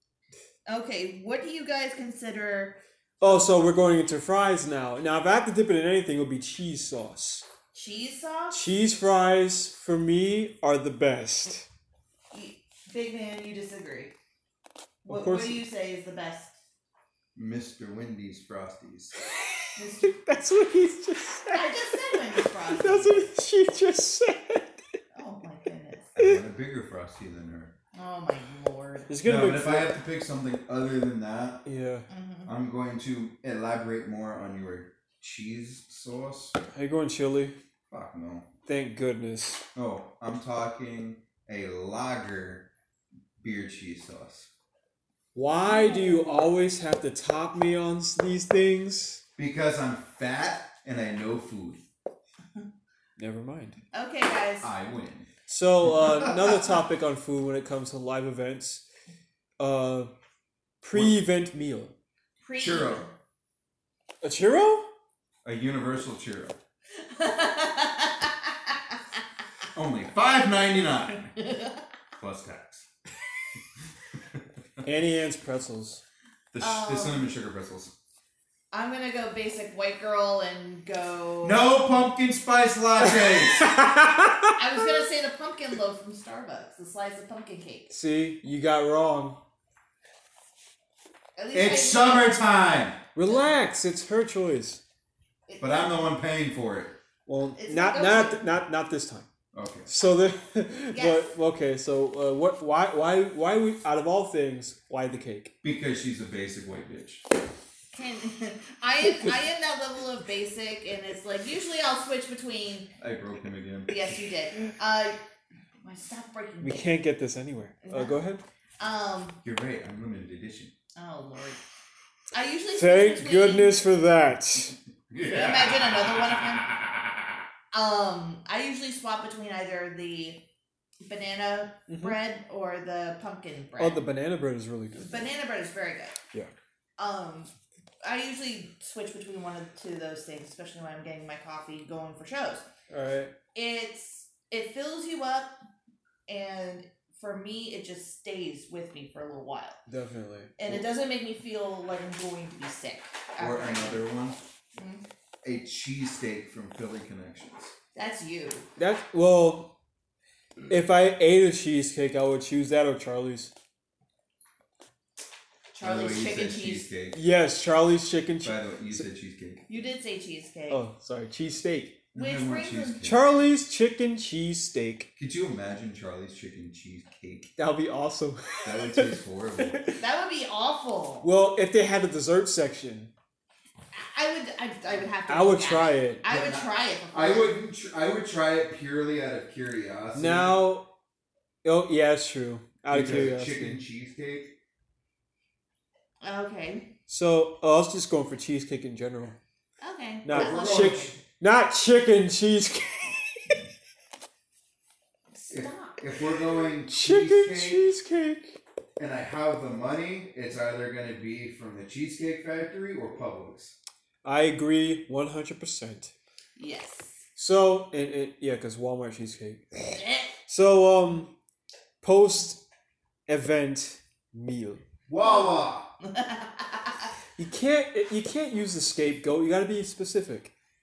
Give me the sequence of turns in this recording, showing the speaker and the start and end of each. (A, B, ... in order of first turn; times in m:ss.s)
0:00.7-0:03.6 A
0:03.2-0:07.5 B
0:07.7-0:08.7 A
0:08.5-0:11.7 B
0:12.3-0:14.2 A
0:15.0-0:16.6 A
0:15.1-0:15.6 B
0:17.4-0:19.2 C
0:19.8-0:20.2 A
0:20.0-0:24.8 B
0:21.5-0:23.3 A
0:25.1-0:26.1 A
0:26.2-0:27.7 C
0:27.9-0:29.1 A
0:29.1-0:30.0 B
0:29.2-0:31.6 C
0:31.7-0:32.1 B
0:32.1-0:32.5 A
0:32.5-0:36.6 C
0:36.7-0:37.6 B
0:37.9-0:38.5 C
0:38.7-0:39.6 B
0:39.8-0:42.7 C
0:43.4-0:44.5 C
0:45.4-0:49.2 B
0:45.6-0:46.4 A
0:49.4-0:51.8 C
0:53.2-0:53.8 B
0:53.9-0:54.7 A
0:54.6-0:55.3 C
0:55.5-0:58.8 B
0:55.8-0:56.6 C
0:59.6-1:00.1 B
1:00.8-1:02.0 B
1:00.9-1:01.2 C
1:02.4-1:03.1 A
1:02.6-1:03.0 C
1:04.2-1:04.9 B
1:05.4-1:06.6 C
1:07.0-1:09.0 A
1:09.7-1:11.3 C
1:11.4-1:11.8 A
1:12.2-1:12.9 C
1:13.8-1:14.9 C
1:14.8-1:16.0 B
1:16.5-1:17.9 C
1:16.6-1:17.2 A
1:18.7-1:21.7 A
1:21.4-1:23.7 C
1:23.1-1:25.0 B
1:24.6-1:27.9 A
1:27.9-1:29.4 B
1:31.4-1:32.5 A
1:31.5-1:33.0 C
1:33.2-1:34.8 B
1:35.5-1:36.0 A
1:35.6-1:37.0 C
1:37.3-1:39.3 B
1:37.6-1:38.4 A
1:39.5-1:39.9 C
1:39.9-1:45.6 B
1:40.9-1:41.3 A
1:45.6-1:47.2 C
1:47.9-1:52.9 A
1:53.0-1:54.0 C
1:53.9-1:55.2 A
1:55.8-1:56.9 A
1:56.6-1:58.4 B
1:57.8-1:58.2 A
1:58.8-1:59.4 A
1:59.4-2:00.7 C
2:01.0-2:01.6 A
2:02.3-2:03.8 A
2:02.7-2:04.8 B
2:05.1-2:06.2 C
2:05.2-2:06.7 A
2:07.7-2:10.5 A
2:11.0-2:14.0 A
2:11.9-2:12.2 B
2:13.8-2:15.3 B
2:15.0-2:16.2 A
2:17.0-2:22.7 A
2:22.9-2:23.4 B
2:23.5-2:25.6 A
2:26.3-2:29.8 A
2:29.9-2:30.8 B
2:30.6-2:34.1 A
2:33.4-2:34.4 C
2:34.8-2:35.0 A
2:35.4-2:37.8 C
2:38.0-2:38.7 A
2:38.8-2:39.8 B
2:40.7-2:43.5 B
2:45.7-2:46.9 A
2:45.8-2:47.2 C
2:47.1-2:49.0 B
2:48.4-2:49.6 C
2:49.7-2:50.8 A
2:50.7-2:52.0 B
2:52.1-2:53.4 C
2:52.2-2:53.0 A
2:53.0-2:55.1 B
2:55.2-2:57.5 C
2:57.6-3:00.0 B
2:58.6-2:59.8 C
3:00.0-3:01.3 A
3:01.2-3:03.1 B
3:03.9-3:07.6 A
3:05.3-3:06.2 B
3:06.2-3:10.7 C
3:10.2-3:10.9 B
3:11.6-3:13.8 B
3:12.9-3:14.6 C
3:16.2-3:17.0 A
3:17.1-3:19.4 B
3:19.8-3:21.1 A
3:20.2-3:23.6 B
3:20.3-3:21.2 C
3:25.3-3:26.2 A
3:25.5-3:27.9 C
3:26.9-3:28.6 B
3:29.0-3:33.8 C
3:34.2-3:36.1 B
3:36.6-3:37.2 A
3:37.4-3:41.4 B
3:39.8-3:40.3 A
3:42.0-3:42.6 B
3:43.3-3:44.8 B
3:45.1-3:45.9 C
3:45.2-3:47.1 A
3:47.4-3:50.5 B